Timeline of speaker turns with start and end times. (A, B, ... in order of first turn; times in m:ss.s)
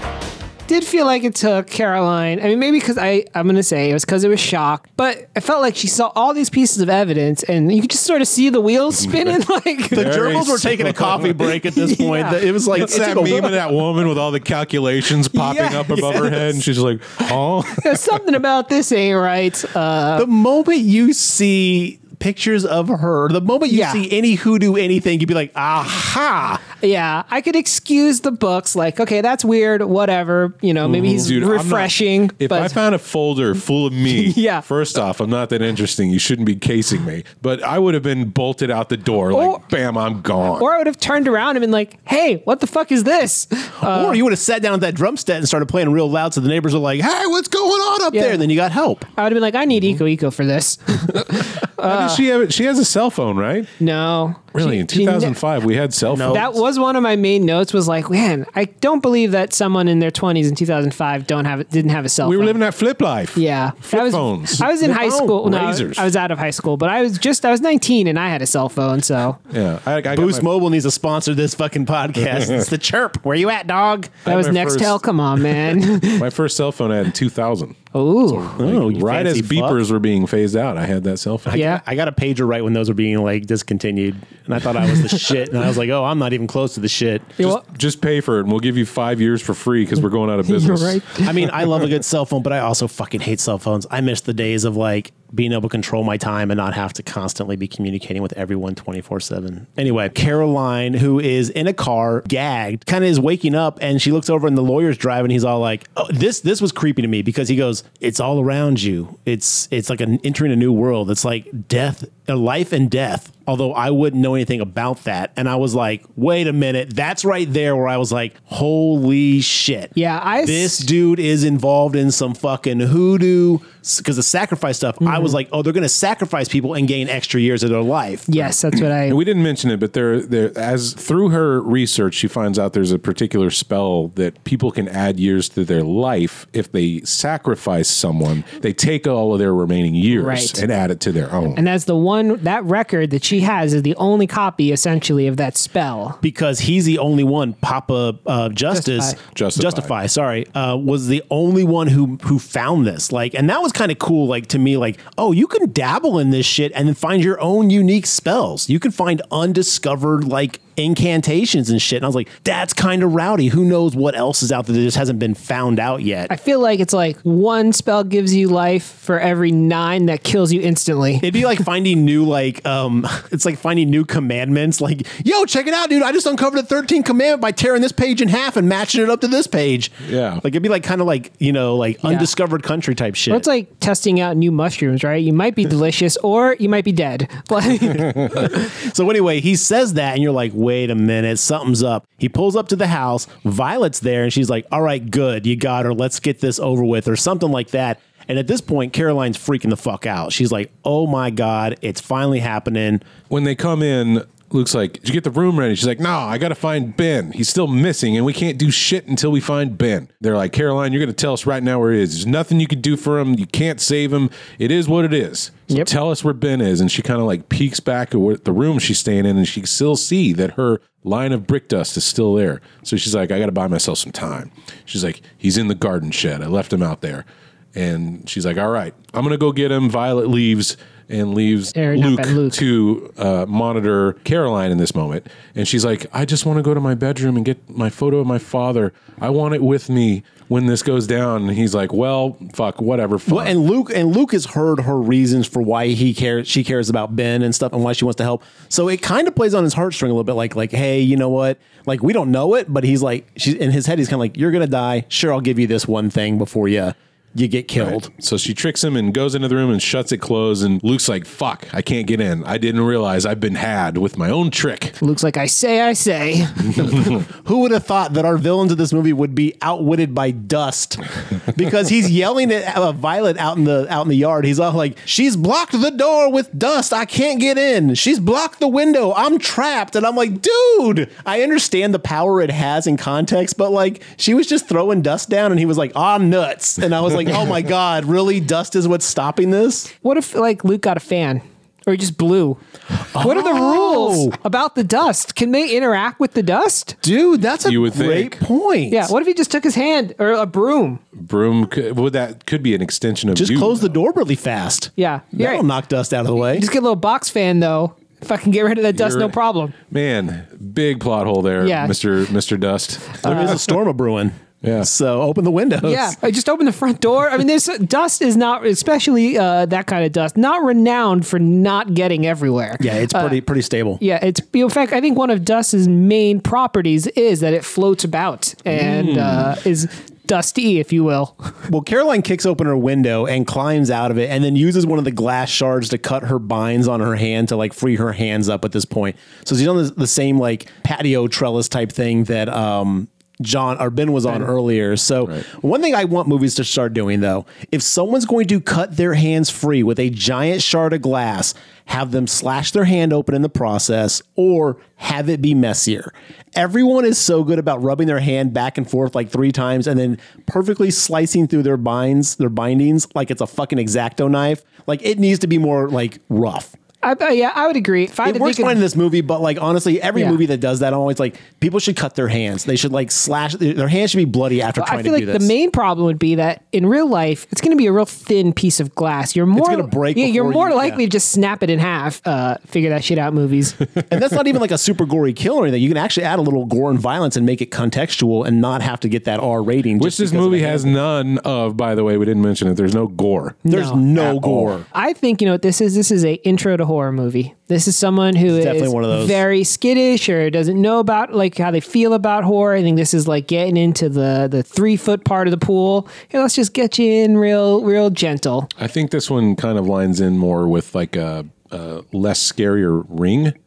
0:00.7-0:10.1 A
0:09.9-0:13.6 B
0:09.9-0:11.3 C
0:11.6-0:12.6 A
0:12.7-0:18.2 C
0:15.3-0:16.5 A
0:17.7-0:20.3 A
0:20.2-0:26.6 B
0:23.7-0:24.0 A
0:26.8-0:32.8 A
0:30.8-0:40.7 C
0:34.0-0:34.6 A
0:39.3-0:39.6 A
0:40.6-0:44.2 A
0:43.8-0:49.0 B
0:48.1-0:48.4 A
0:49.2-0:52.2 A
0:51.8-0:53.7 C
0:53.8-0:55.4 A
0:54.5-0:56.5 C
0:56.1-0:56.5 B
0:56.3-1:02.6 A
1:02.2-1:04.7 C
1:03.4-1:09.4 A
1:04.6-1:05.4 B
1:05.4-1:06.1 C
1:09.5-1:10.5 C
1:10.1-1:14.2 B
1:14.2-1:21.6 C
1:14.2-1:16.3 A
1:17.9-1:18.6 A
1:18.6-1:19.8 B
1:21.4-1:27.4 B
1:21.5-1:21.8 A
1:27.4-1:31.3 C
1:30.4-1:31.5 A
1:31.2-2:08.5 B
2:00.0-2:00.9 A
2:05.0-2:05.4 A
2:08.3-2:09.2 A
2:09.0-2:21.6 C
2:20.1-2:20.6 A
2:21.5-2:26.2 A
2:26.2-2:46.3 B
2:28.7-2:29.2 A
2:29.3-2:29.9 C
2:46.3-2:51.4 A
2:51.2-3:03.5 B
3:00.0-3:00.4 C
3:02.0-3:02.3 A
3:03.3-3:08.7 A
3:08.3-3:23.0 B
3:23.3-4:03.5 C
3:51.7-3:52.6 A
4:03.3-4:18.1 B
4:17.8-4:25.0 C
4:25.0-4:26.9 A
4:26.8-4:49.9 B
4:50.0-4:52.6 A
4:53.1-4:54.4 B
4:53.2-4:57.0 A
4:57.0-4:59.1 B
4:57.6-4:58.4 C
4:58.9-5:01.0 A
5:01.2-5:04.0 C
5:03.3-5:06.7 B
5:05.0-5:05.6 A
5:06.4-5:09.7 A
5:08.9-5:09.3 C
5:09.9-5:13.5 C
5:11.6-5:12.0 A
5:13.2-5:16.2 B
5:13.2-5:13.5 A
5:14.6-5:14.9 C
5:15.8-5:23.4 A
5:22.8-5:24.0 B
5:24.0-5:31.5 A
5:28.7-5:29.5 B
5:31.7-6:06.7 B
6:07.0-6:08.8 A
6:08.2-6:15.5 B
6:14.8-6:23.8 A
6:19.5-6:21.0 B
6:24.1-6:31.0 B
6:30.0-6:33.6 C
6:33.6-6:34.0 A
6:33.7-6:34.8 B
6:34.1-6:34.8 C
6:34.9-6:48.7 A
6:38.5-6:39.4 B
6:48.8-6:53.5 C